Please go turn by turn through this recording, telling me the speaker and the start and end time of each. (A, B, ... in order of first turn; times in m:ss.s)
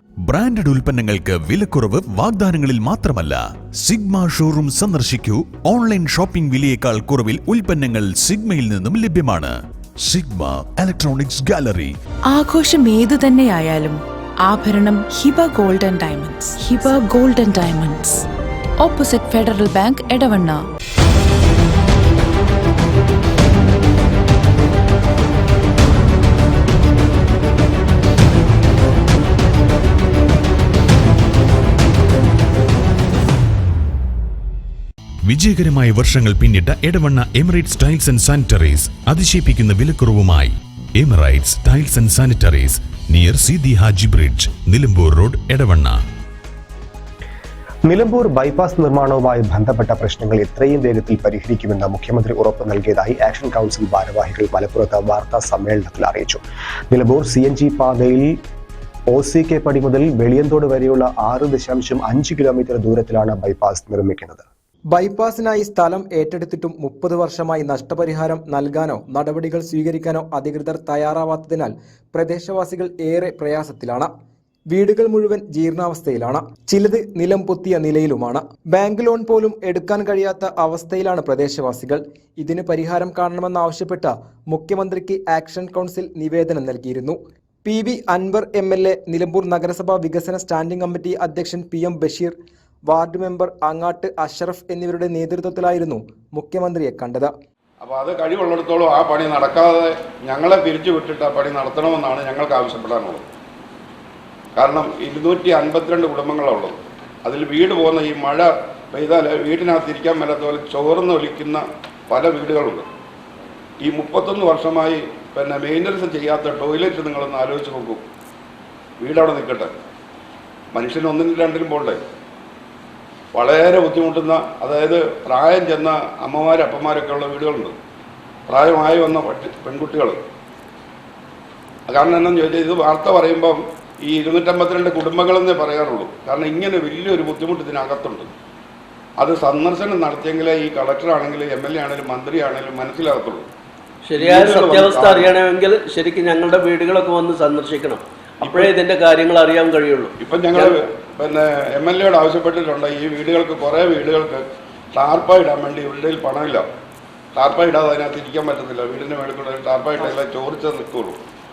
0:00.3-0:09.6 A
0:10.1-0:11.9 A
0:12.3-0:18.2 B
0:18.8-0:20.6 B
0:35.3-0:46.0 A
0:47.9-0:58.4 C
0:59.1-1:04.4 C
1:04.9-1:14.1 D
1:14.7-1:32.4 D
1:32.9-1:37.3 D
1:37.8-1:43.2 E
1:44.6-1:52.9 E
1:53.8-1:58.0 E
1:59.0-1:59.7 E
2:00.7-2:02.0 E
2:03.3-2:07.8 E
2:08.5-2:10.2 E
2:11.9-2:18.3 E
2:19.2-2:23.5 E
2:24.0-2:30.7 F
2:24.1-2:25.4 E
2:28.4-2:28.8 E
2:30.2-2:34.4 E
2:35.0-2:36.6 E
2:37.4-2:41.2 E